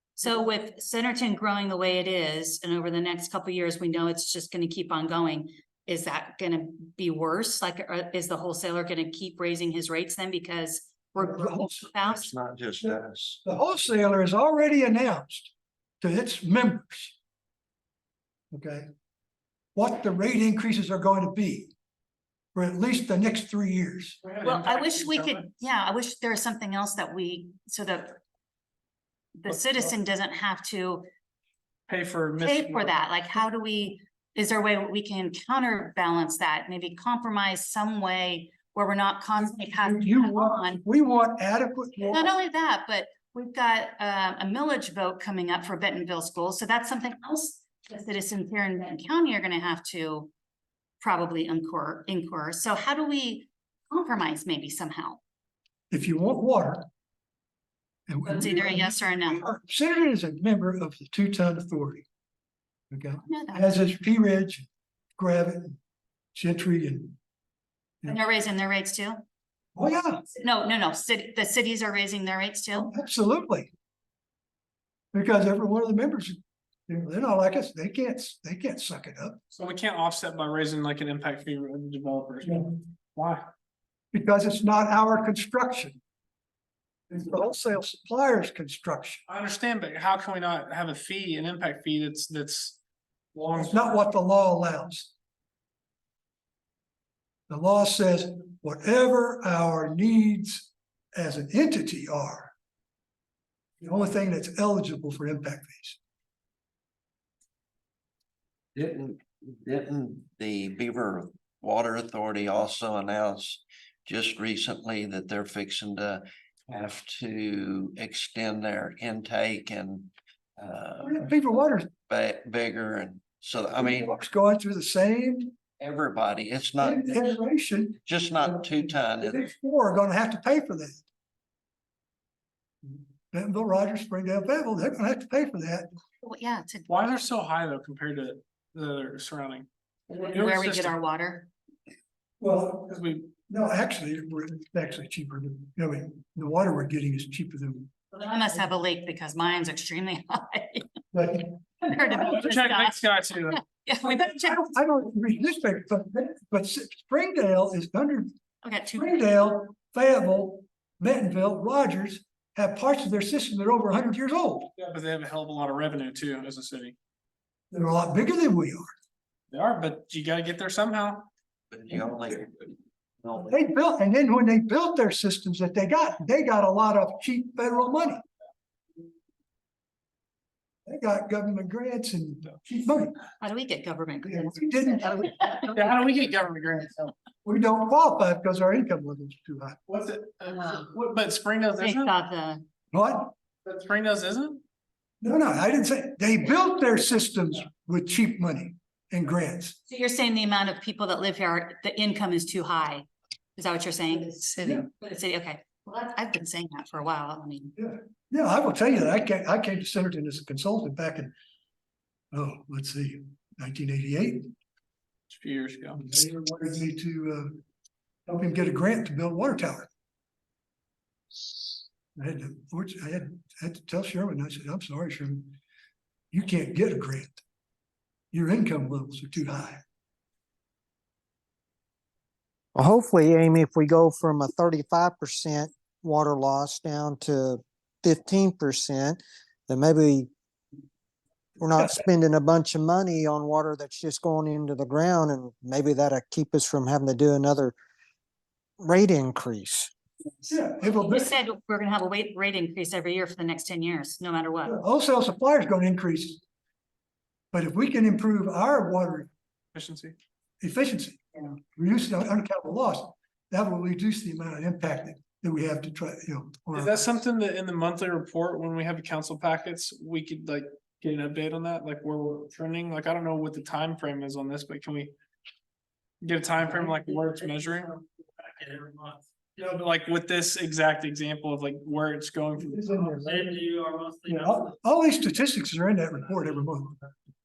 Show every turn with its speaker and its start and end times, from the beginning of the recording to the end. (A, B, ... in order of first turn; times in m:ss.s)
0:00.2-0:12.3 A
0:11.2-0:11.9 B
0:12.0-0:13.4 C
0:12.8-0:17.2 B
0:18.5-0:18.9 B
0:19.8-0:21.7 B
0:22.5-0:24.2 B
0:24.2-0:25.5 D
0:24.4-0:28.2 A
0:29.4-0:31.1 A
0:31.9-0:32.9 D
0:32.4-0:40.8 A
0:39.5-0:42.3 B
0:42.1-0:50.3 A
0:51.0-0:55.2 A
0:55.9-0:56.9 B
0:58.1-1:02.1 B
0:58.2-0:59.4 A
1:02.9-1:05.8 B
1:03.3-1:03.8 A
1:06.3-1:07.2 B
1:08.0-1:09.2 A
1:09.8-1:10.2 B
1:10.4-1:12.9 A
1:12.7-1:13.7 B
1:15.1-1:19.4 B
1:19.5-1:23.5 D
1:24.1-1:26.0 B
1:27.1-1:29.2 B
1:29.3-1:32.8 D
1:33.3-1:34.0 D
1:33.6-1:35.1 B
1:37.5-1:42.5 B
1:43.8-1:46.0 B
1:48.8-2:04.2 C
2:01.0-2:01.9 B
2:03.8-2:05.6 B
2:05.8-2:07.3 C
2:06.8-2:11.0 B
2:08.1-2:09.4 C
2:12.8-2:15.9 B
2:16.2-2:16.9 A
2:16.9-2:21.0 D
2:20.1-2:21.5 A
2:22.4-2:22.9 B
2:22.9-2:23.3 D
2:23.5-2:27.9 B
2:28.1-2:30.9 A
2:31.1-2:32.3 B
2:31.9-2:33.0 A
2:32.2-2:33.6 D
2:33.5-2:34.6 A
2:34.1-2:38.3 B
2:38.6-2:39.1 A
2:39.0-2:44.7 B
2:44.8-2:47.0 D
2:47.7-2:48.9 B
2:49.5-2:51.3 D
2:51.7-2:53.5 C
2:53.4-2:58.2 B
3:00.9-3:03.2 B
3:03.4-3:05.7 A
3:04.2-3:05.4 B
3:05.7-3:07.1 D
3:07.4-3:09.8 B
3:09.9-3:12.1 D
3:11.8-3:12.6 A
3:12.9-3:13.3 B
3:13.6-3:14.6 D
3:15.2-3:19.8 B
3:19.9-3:27.8 A
3:27.8-3:31.3 B
3:32.3-3:34.5 B
3:35.3-3:36.0 D
3:36.0-3:37.6 B
3:38.3-3:39.9 B
3:42.2-3:45.6 B
3:46.3-3:47.4 B
3:48.3-3:49.8 B
3:52.8-4:00.3 E
4:01.6-4:07.8 E
4:01.8-4:02.0 B
4:08.8-4:09.9 E
4:10.5-4:11.3 B
4:10.8-4:14.8 A
4:14.6-4:16.4 B
4:17.5-4:19.3 B
4:19.8-4:20.2 D
4:20.6-4:27.1 B
4:26.8-4:35.1 D
4:36.2-4:38.0 D
4:39.6-4:42.9 D
4:42.6-4:43.6 B
4:44.3-4:47.1 B